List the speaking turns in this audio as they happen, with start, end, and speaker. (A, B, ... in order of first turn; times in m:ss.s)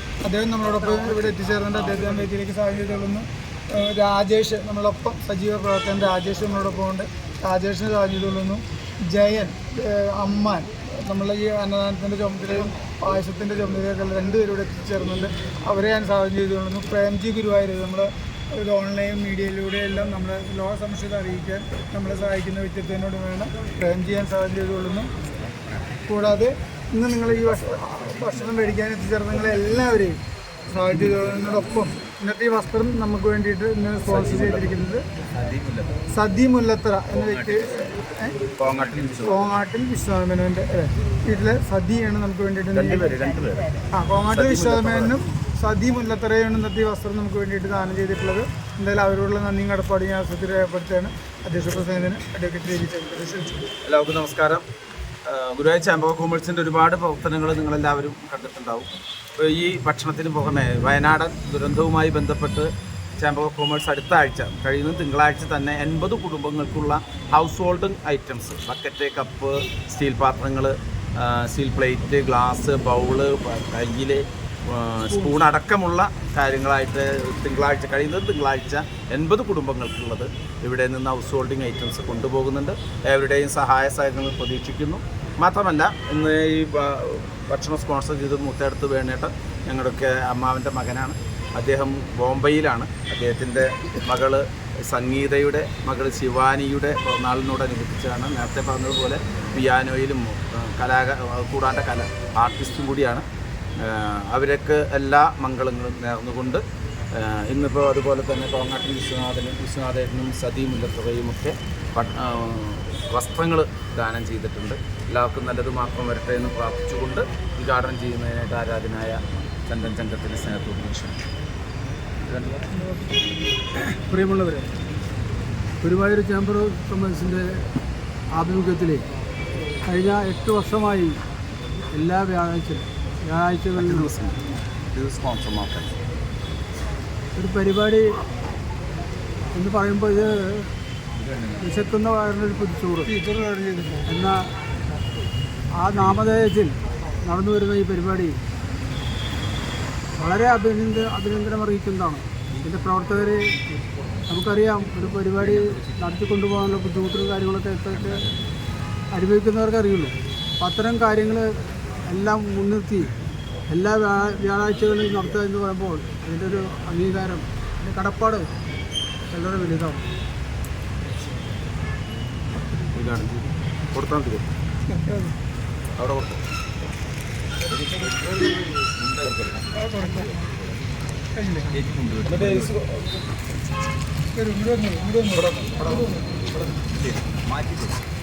0:00.2-0:25.1 A
0:00.9-0:01.2 B
0:26.1-0:30.2 A
0:30.7-0:35.0 A
0:34.1-0:34.7 C
0:35.4-0:35.9 C
0:36.1-0:38.4 A
0:37.2-0:37.7 C
0:38.6-0:39.5 C
0:39.2-0:43.2 A
0:42.8-0:43.7 C
0:43.9-0:53.6 A
0:44.3-0:45.2 C
0:53.8-0:54.6 C
0:55.2-1:43.2 C
1:15.1-1:15.4 B
1:43.8-2:01.2 C
2:02.2-2:02.6 C
2:03.8-2:04.7 B
2:05.8-2:07.6 B
2:08.3-2:09.0 B
2:09.9-2:11.2 B
2:11.9-2:14.1 B
2:13.8-2:14.4 C
2:14.9-2:15.9 C
2:17.4-2:18.1 B
2:19.5-2:20.7 B
2:21.6-2:23.1 B
2:23.0-2:24.1 A
2:24.1-2:24.4 B
2:25.8-2:28.4 B
2:30.2-2:33.5 B
2:34.3-2:38.4 B
2:39.1-2:41.5 B
2:42.1-2:43.1 B
2:43.7-2:48.5 B
2:49.3-2:50.0 B
2:52.7-2:54.4 C
2:54.9-2:55.3 A
2:56.0-2:56.4 C
2:57.7-2:59.7 C
2:59.8-3:00.4 A
3:01.4-3:01.8 A
3:02.0-3:03.2 C
3:04.3-3:06.2 A
3:05.3-3:07.9 C